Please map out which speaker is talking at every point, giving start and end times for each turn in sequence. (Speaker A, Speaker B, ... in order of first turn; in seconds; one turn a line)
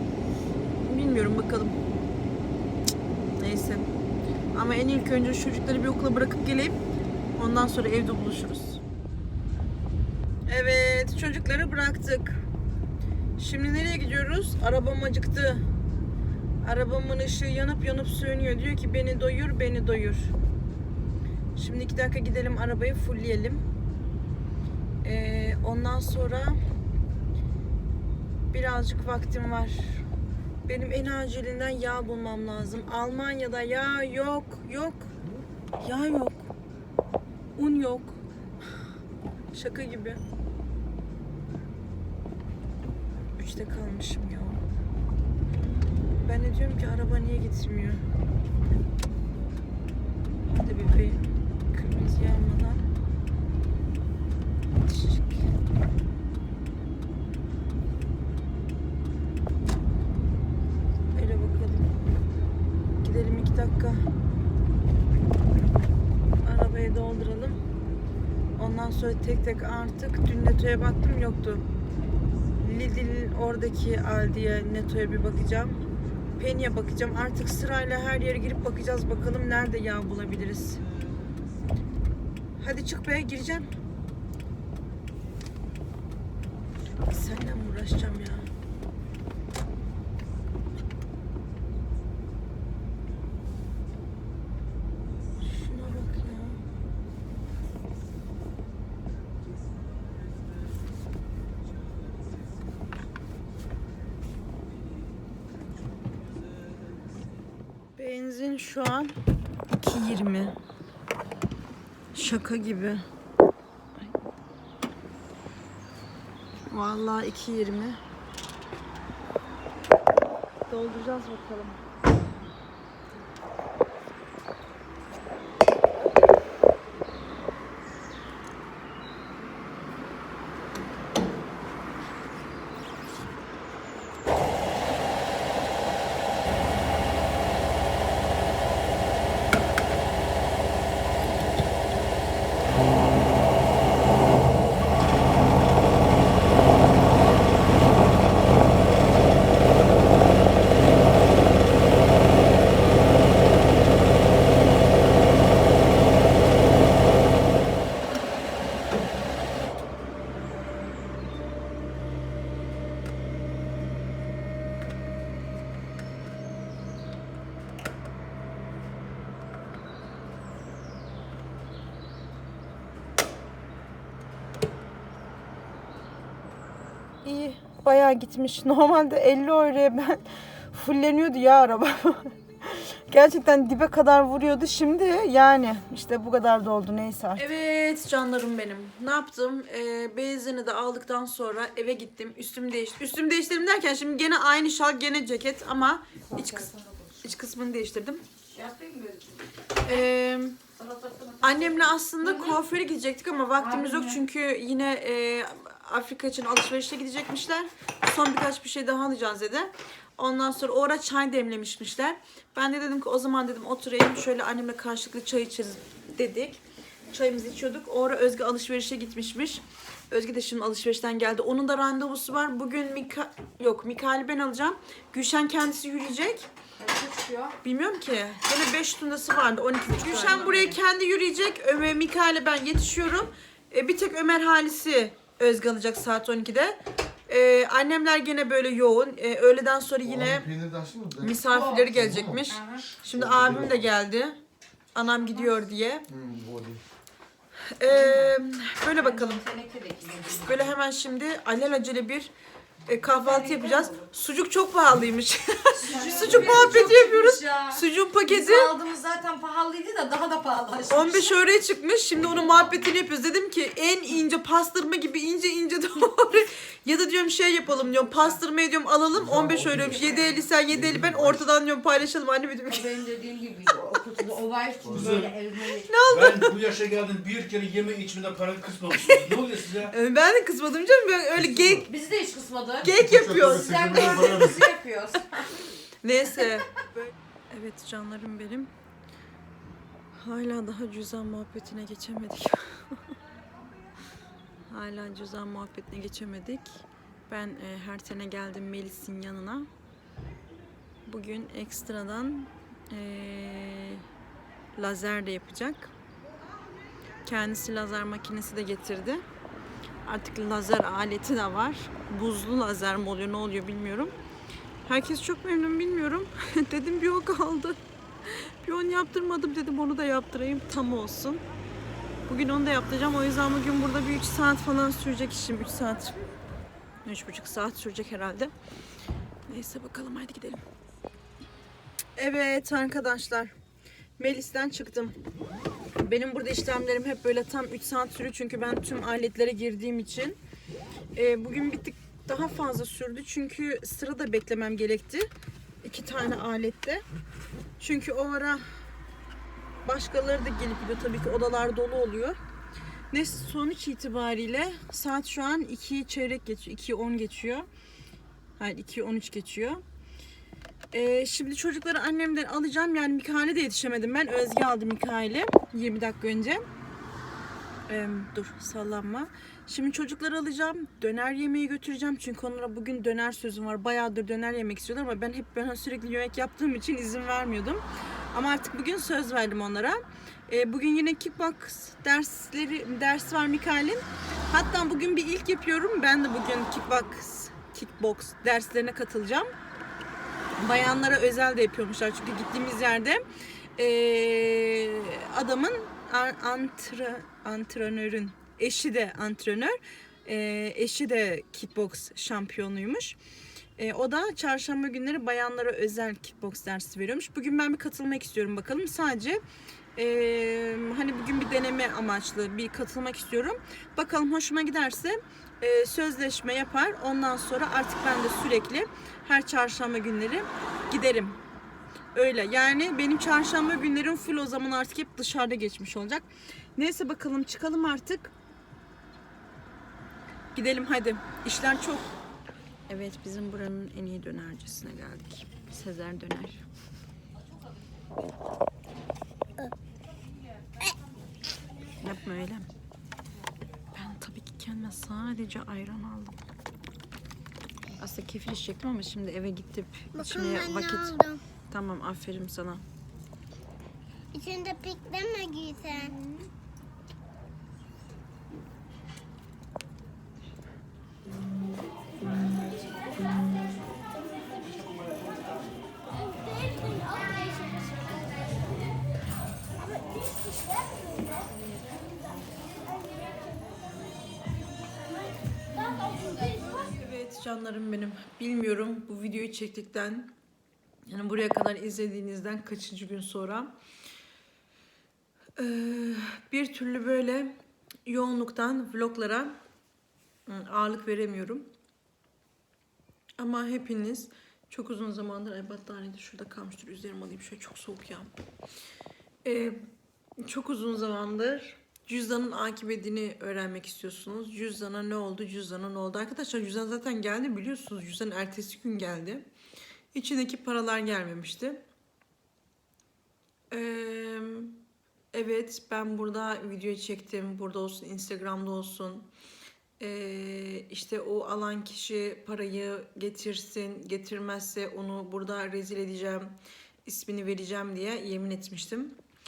Speaker A: 0.8-1.8
Speaker A: 3.4-3.9
Speaker A: 4.5-6.8
Speaker A: 7.3-8.8
Speaker A: 10.5-12.4
Speaker A: 13.4-15.6
Speaker A: 16.6-20.3
Speaker A: 21.5-23.6
Speaker A: 25.0-26.6
Speaker A: 28.5-30.1
Speaker A: 30.6-35.1
Speaker A: 35.8-36.5
Speaker A: 37.6-38.2
Speaker A: 39.5-40.2
Speaker A: 43.4-44.6
Speaker A: 45.5-48.0
Speaker A: 50.5-52.9
Speaker A: 54.7-55.5
Speaker A: 61.1-62.0
Speaker A: 63.0-64.0
Speaker A: 66.4-67.6
Speaker A: 68.6-71.7
Speaker A: 72.6-75.8
Speaker A: 76.3-80.8
Speaker A: 82.6-83.7
Speaker A: 87.0-88.5
Speaker A: 95.4-96.6
Speaker A: 108.0-109.1
Speaker A: 109.7-110.6
Speaker A: 112.1-113.0
Speaker A: 116.7-118.0
Speaker A: 120.7-121.8
Speaker A: 177.2-198.2
Speaker B: 196.3-197.2
Speaker B: 198.5-199.4
Speaker A: 199.8-200.6
Speaker B: 200.7-202.6
Speaker A: 201.4-226.5
Speaker B: 203.6-204.2
Speaker B: 226.8-227.6
Speaker A: 227.6-240.5
Speaker B: 230.0-230.8
Speaker C: 240.1-241.3
Speaker A: 241.2-244.4
Speaker B: 241.5-241.9
Speaker C: 241.9-242.4
Speaker B: 242.5-242.9
Speaker C: 243.1-243.8
Speaker A: 244.9-246.1
Speaker C: 246.1-246.8
Speaker A: 247.6-249.4
Speaker B: 247.9-248.3
Speaker B: 248.9-250.7
Speaker A: 250.3-252.3
Speaker A: 252.8-258.7
Speaker B: 253.2-254.0
Speaker B: 255.8-261.3
Speaker A: 260.9-272.9
Speaker C: 269.1-270.0
Speaker B: 269.7-270.4
Speaker C: 270.7-271.4
Speaker B: 272.7-275.9
Speaker D: 274.9-275.4
Speaker A: 275.8-276.6
Speaker D: 276.1-279.9
Speaker A: 279.1-281.9
Speaker B: 281.9-285.6
Speaker A: 282.8-284.5
Speaker C: 283.0-284.5
Speaker A: 286.0-286.9
Speaker A: 287.5-288.7
Speaker A: 290.1-293.0
Speaker A: 294.7-299.7
Speaker A: 301.0-304.0
Speaker A: 304.8-305.9
Speaker A: 307.2-309.2
Speaker A: 310.0-314.1
Speaker A: 314.9-321.4
Speaker A: 322.3-326.2
Speaker A: 327.0-328.5
Speaker A: 329.5-330.6
Speaker A: 332.1-333.5
Speaker A: 334.2-335.1
Speaker A: 336.0-340.4
Speaker A: 341.1-345.3
Speaker A: 345.8-347.0
Speaker A: 347.8-348.6
Speaker A: 349.8-352.4
Speaker A: 353.1-357.7
Speaker A: 358.6-359.8
Speaker A: 360.9-366.6
Speaker A: 367.9-389.5
Speaker A: 390.6-393.2
Speaker A: 393.8-403.2
Speaker A: 403.8-409.4
Speaker A: 409.9-421.4
Speaker A: 422.1-428.3
Speaker A: 430.5-432.1
Speaker A: 432.9-436.6
Speaker A: 442.0-442.7
Speaker A: 443.9-446.4
Speaker A: 447.9-452.8
Speaker E: 450.1-451.4
Speaker E: 454.3-456.2
Speaker E: 466.7-467.9
Speaker A: 476.3-480.3
Speaker A: 481.1-483.7
Speaker A: 485.6-487.5
Speaker A: 488.1-489.6
Speaker A: 490.4-491.7
Speaker A: 493.4-498.3
Speaker A: 499.4-499.8
Speaker A: 500.4-509.5
Speaker A: 510.1-511.8
Speaker A: 513.7-514.8
Speaker A: 515.3-519.3
Speaker A: 520.0-526.5
Speaker A: 527.0-529.2